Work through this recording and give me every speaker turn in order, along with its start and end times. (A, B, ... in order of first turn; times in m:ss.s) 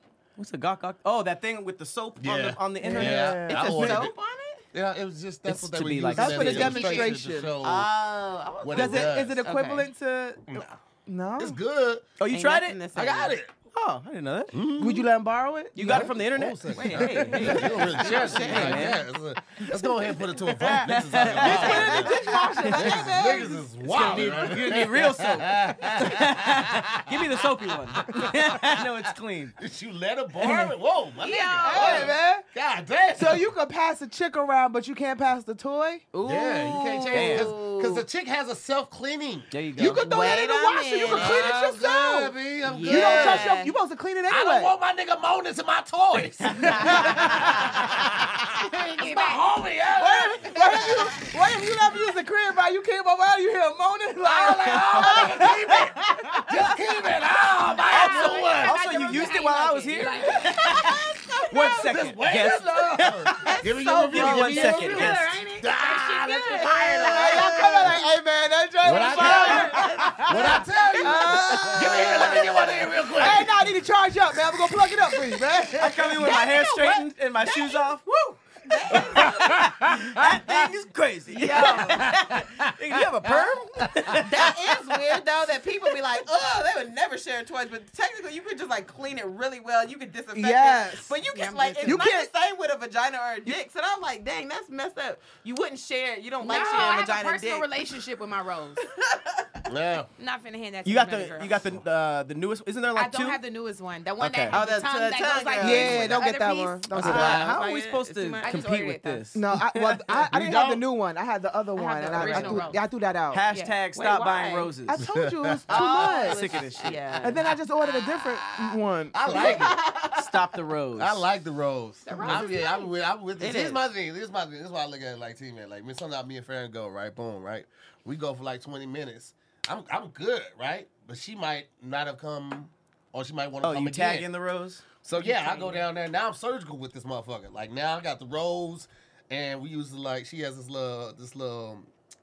0:00.4-0:04.0 A
0:02.2-0:04.1 B
0:02.8-0:03.9 C
0:03.0-0:04.6 D
0:04.7-0:07.9 B
0:05.4-0:06.8 A
0:06.1-0:07.5 C
0:06.8-0:09.9 D
0:08.6-0:09.4 B
0:08.7-0:11.6 C
0:10.5-0:10.8 B
0:11.4-0:12.1 B
0:12.2-0:12.8 A
0:12.2-0:13.4 D
0:12.9-0:13.5 B
0:13.7-0:14.6 A
0:14.5-0:15.1 B
0:14.8-0:16.1 C
0:15.7-0:19.0 A
0:15.8-0:28.8 B
0:17.5-0:18.9 D
0:20.3-0:23.0 A
0:21.3-0:23.6 C
0:23.8-0:29.6 A
0:29.6-0:33.5 B
0:31.2-0:32.1 E
0:31.6-0:32.4 C
0:33.1-0:36.0 C
0:36.1-0:36.4 A
0:36.1-0:38.0 D
0:36.2-0:40.0 B
0:37.1-0:37.6 A
0:39.5-0:40.3 A
0:39.8-0:44.7 C
0:40.0-0:41.5 D
0:41.1-0:43.6 B
0:42.6-0:43.7 D
0:44.3-0:51.0 B
0:46.4-0:47.0 A
0:46.6-0:47.3 C
0:48.9-0:49.5 E
0:50.0-0:56.7 C
0:54.2-0:58.8 B
0:57.9-1:01.0 E
0:57.9-1:05.4 A
1:00.5-1:01.9 D
1:01.5-1:08.0 B
1:03.3-1:05.0 D
1:04.5-1:07.9 E
1:07.0-1:16.3 C
1:08.8-1:13.6 B
1:09.0-1:09.8 E
1:09.2-1:12.5 D
1:15.7-1:18.4 A
1:16.4-1:16.8 D
1:17.5-1:17.8 D
1:18.6-1:19.7 D
1:18.9-1:24.8 A
1:19.0-1:20.6 B
1:21.3-1:22.1 D
1:21.7-1:24.2 B
1:24.2-1:37.7 D
1:30.3-1:31.2 C
1:31.3-1:32.1 E
1:31.8-1:32.3 C
1:36.4-1:38.8 E
1:39.1-1:39.4 D
1:39.6-1:40.1 B
1:40.2-1:41.6 E
1:40.8-1:43.4 A
1:42.9-1:47.0 E
1:44.2-1:44.6 A
1:44.5-1:46.1 D
1:45.6-1:47.5 C
1:47.0-1:47.5 B
1:47.0-1:50.8 A
1:47.1-1:48.8 D
1:48.4-1:49.2 E
1:49.3-1:53.4 C
1:51.7-1:52.8 E
1:52.2-1:52.7 A
1:52.2-1:52.6 D
1:53.3-1:55.0 A
1:53.4-1:53.8 E
1:53.9-1:54.7 D
1:54.9-1:56.4 C
1:55.0-1:55.6 B
1:55.7-1:57.5 D
1:55.7-1:57.2 A
1:57.2-1:59.6 C
1:59.1-1:59.8 B
1:59.3-2:00.5 D
2:00.1-2:01.3 A
2:01.0-2:14.3 B
2:02.0-2:02.9 E
2:03.4-2:03.8 D
2:13.6-2:14.9 A
2:15.0-2:21.9 B
2:15.2-2:15.8 E